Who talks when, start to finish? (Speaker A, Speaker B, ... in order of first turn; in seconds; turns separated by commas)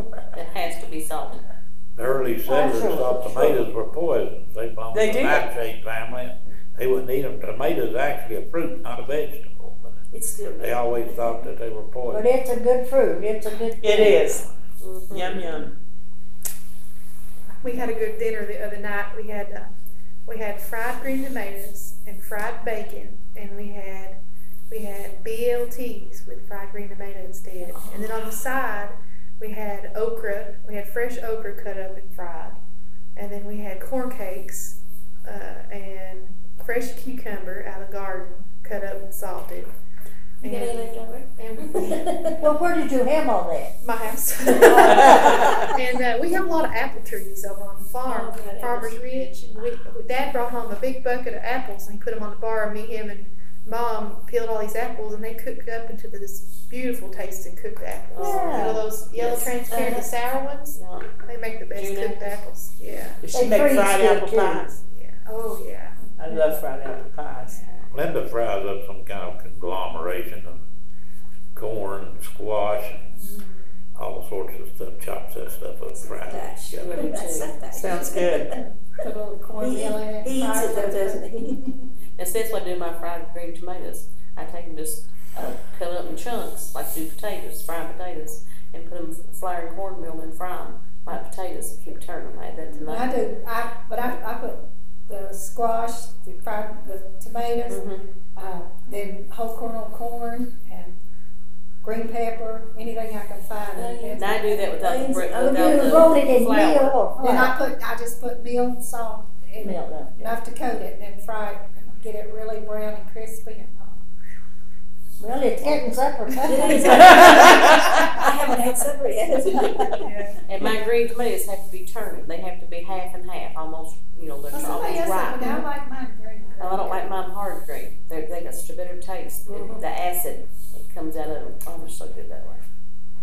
Speaker A: 0.3-1.4, Speaker B: 2.0-10.0, Speaker C: 2.5-3.7, Speaker D: 4.9-5.5, Speaker E: 10.1-11.4, Speaker B: 10.6-12.3, Speaker C: 12.1-14.4, Speaker D: 13.8-14.4, Speaker A: 14.8-15.6, Speaker D: 15.1-15.7, Speaker F: 17.6-19.7, Speaker G: 17.6-18.2, Speaker F: 20.3-24.2, Speaker F: 24.7-32.6, Speaker F: 33.2-39.7, Speaker F: 40.4-42.0, Speaker E: 40.4-42.4, Speaker C: 42.4-43.8, Speaker F: 43.8-63.2, Speaker C: 44.6-45.6, Speaker D: 44.8-45.7, Speaker E: 48.0-49.0, Speaker A: 58.1-58.6, Speaker C: 58.2-58.8, Speaker E: 59.2-60.1, Speaker A: 60.7-61.1, Speaker A: 61.7-62.3, Speaker D: 63.2-64.8, Speaker C: 63.3-64.7, Speaker F: 64.9-66.0, Speaker D: 66.2-67.6, Speaker A: 67.5-67.9, Speaker B: 67.9-70.6, Speaker B: 71.6-73.2, Speaker F: 73.2-73.5, Speaker B: 74.0-77.0, Speaker E: 76.0-78.5, Speaker A: 76.7-77.5, Speaker D: 77.7-78.5, Speaker G: 79.0-81.3, Speaker E: 79.6-81.8, Speaker A: 82.2-93.1, Speaker G: 92.7-97.8, Speaker A: 97.7-98.1, Speaker G: 98.4-101.0, Speaker G: 101.8-105.2, Speaker E: 103.7-106.2, Speaker A: 104.2-107.0, Speaker C: 105.3-107.6, Speaker G: 107.2-114.0, Speaker C: 109.6-110.2, Speaker C: 115.2-117.4, Speaker E: 116.4-120.0, Speaker D: 116.9-118.1, Speaker A: 120.5-125.6, Speaker G: 124.5-127.1, Speaker A: 126.6-132.7, Speaker G: 129.5-129.8